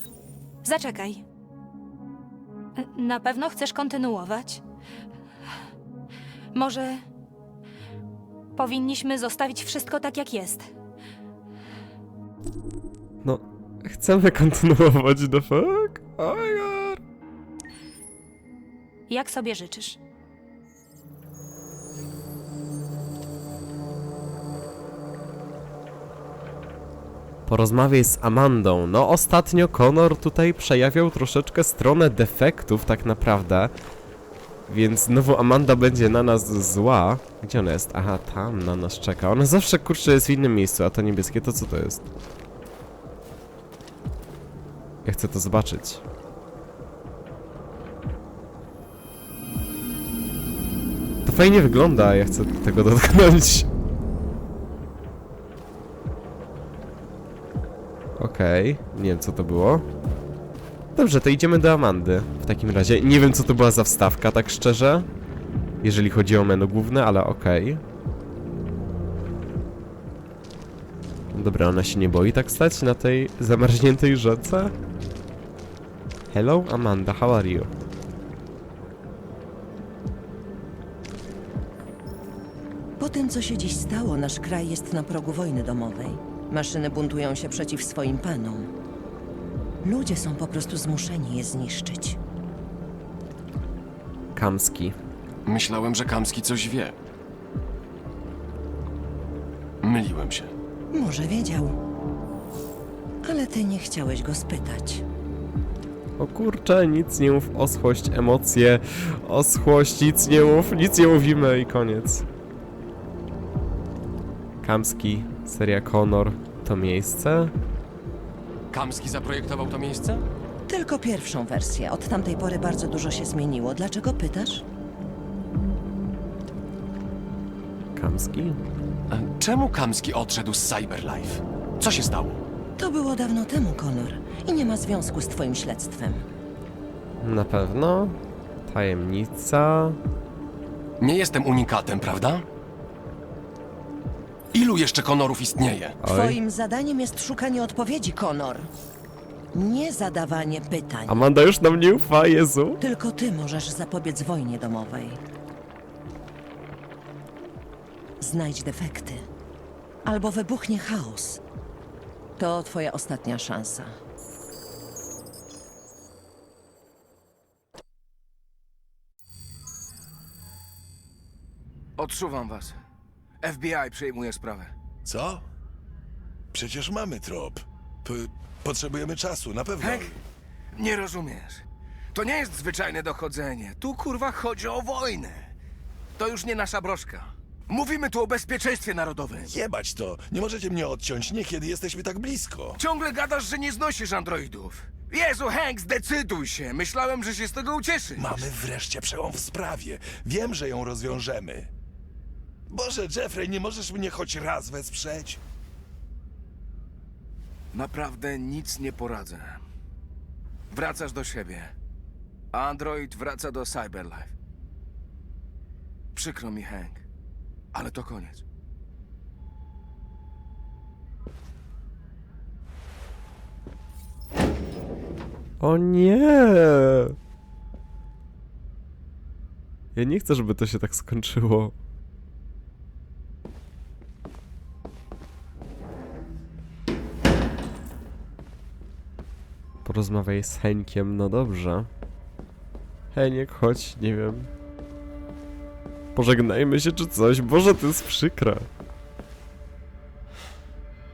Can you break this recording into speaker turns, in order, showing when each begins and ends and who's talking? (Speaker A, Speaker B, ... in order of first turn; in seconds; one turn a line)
Speaker A: 0.6-1.2
Speaker A: 2.8-4.6
Speaker A: 6.5-7.0
Speaker A: 8.6-10.7
Speaker B: 13.2-17.0
Speaker A: 19.1-20.0
Speaker B: 27.5-33.7
Speaker B: 34.7-42.1
Speaker B: 45.0-46.0
Speaker B: 51.2-53.7
Speaker B: 58.2-59.8
Speaker B: 61.0-65.1
Speaker B: 65.8-67.8
Speaker B: 71.3-74.7
Speaker B: 76.3-77.7
Speaker C: 83.0-88.7
Speaker C: 89.8-92.2
Speaker B: 94.3-94.9
Speaker D: 95.5-96.9
Speaker D: 99.8-100.5
Speaker C: 100.9-101.8
Speaker C: 103.2-105.0
Speaker B: 106.2-112.2
Speaker B: 114.6-117.5
Speaker D: 118.7-120.3
Speaker C: 120.7-124.6
Speaker B: 127.9-128.6
Speaker D: 129.1-132.4
Speaker C: 132.8-136.2
Speaker B: 137.2-140.0
Speaker D: 141.0-142.4
Speaker D: 144.5-145.9
Speaker B: 146.0-146.4
Speaker C: 146.0-148.7
Speaker C: 149.5-151.2
Speaker B: 151.1-152.8
Speaker C: 152.8-155.2
Speaker C: 158.2-159.2
Speaker C: 160.0-161.4
Speaker C: 162.4-163.9
Speaker E: 172.0-172.8
Speaker E: 173.4-174.7
Speaker F: 175.0-175.4
Speaker F: 176.5-180.2
Speaker E: 179.8-180.1
Speaker E: 180.7-185.5
Speaker E: 186.2-189.5
Speaker F: 189.5-192.8
Speaker E: 192.8-198.4
Speaker F: 198.2-201.7
Speaker F: 202.7-205.4
Speaker E: 207.7-209.6
Speaker E: 210.7-211.7
Speaker E: 212.5-214.3
Speaker E: 216.1-217.0
Speaker E: 217.7-218.4
Speaker B: 225.6-227.1
Speaker B: 229.9-231.7
Speaker B: 239.8-241.9
Speaker B: 243.1-244.5
Speaker B: 246.1-248.7